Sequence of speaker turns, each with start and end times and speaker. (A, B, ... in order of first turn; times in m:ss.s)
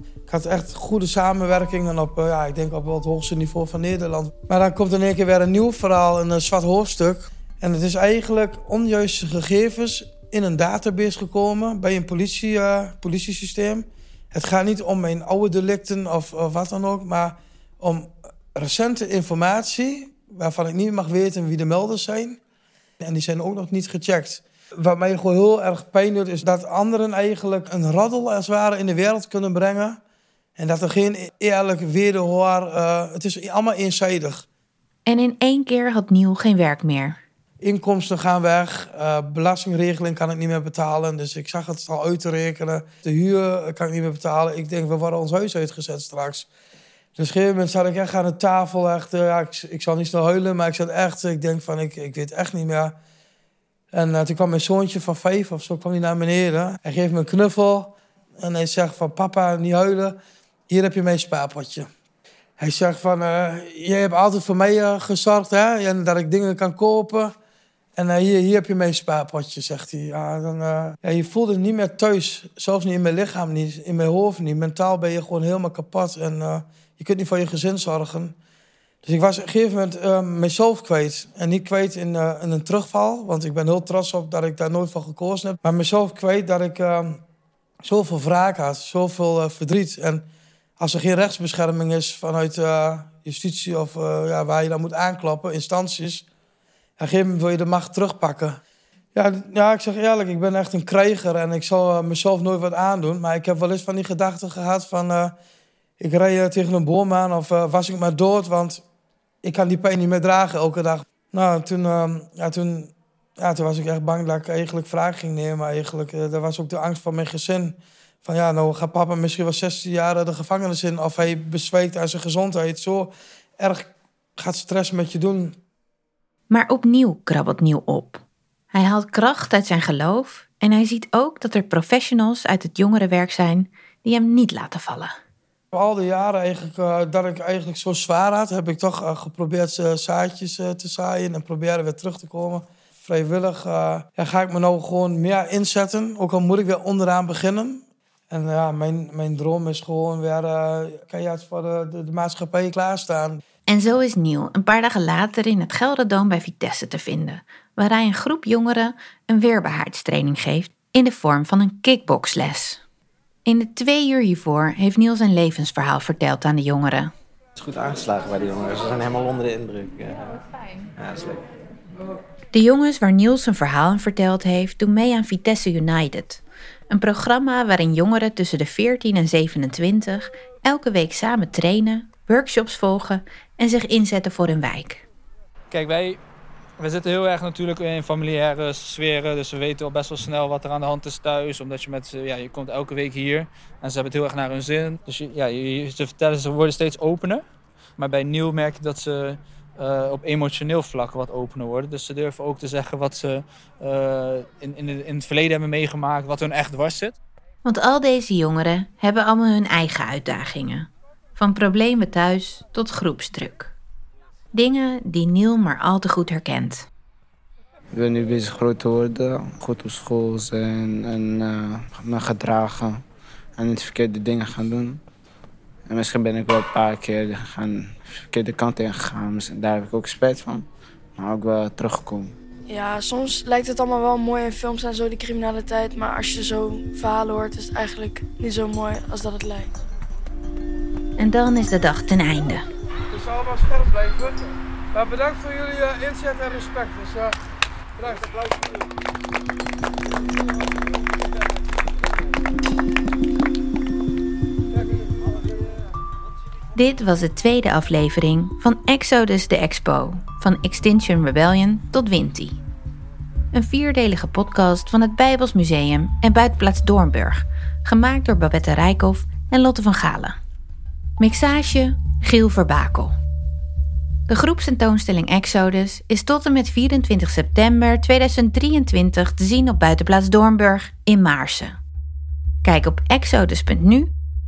0:00.3-0:22.4 A
0:23.0-0:30.0 A
0:30.6-0:34.5 A
0:35.1-0:37.2 B
0:37.6-0:46.5 A
0:47.2-0:53.0 A
0:53.9-1:00.2 A
1:00.7-1:01.9 A
1:02.6-1:07.3 A
1:08.0-1:18.4 A
1:19.0-1:27.2 A
1:27.8-1:30.3 A
1:30.8-1:36.3 A
1:37.0-1:38.6 A
1:39.2-1:45.4 A
1:46.0-1:48.8 A
1:49.4-2:05.6 A
2:06.5-2:08.2 B
2:08.7-2:15.1 B
2:15.7-2:33.4 A
2:33.7-2:42.8 B
2:43.5-2:47.1 B
2:47.6-2:51.4 C
2:52.5-3:05.0 B
3:05.7-3:06.2 D
3:06.8-3:17.4 D
3:18.0-3:27.2 D
3:27.6-3:33.7 B
3:34.5-3:36.9 B
3:37.9-3:43.0 E
3:43.6-3:45.0 E
3:45.9-3:52.3 E
3:52.7-3:59.7 F
4:01.2-4:02.6 B
4:03.1-4:07.4 A
4:08.0-4:08.8 A
4:14.8-4:15.1 A
4:16.8-4:22.6 B
4:23.5-4:30.4 B
4:31.2-4:33.2 B
4:34.3-4:41.8 B
4:42.6-4:44.1 B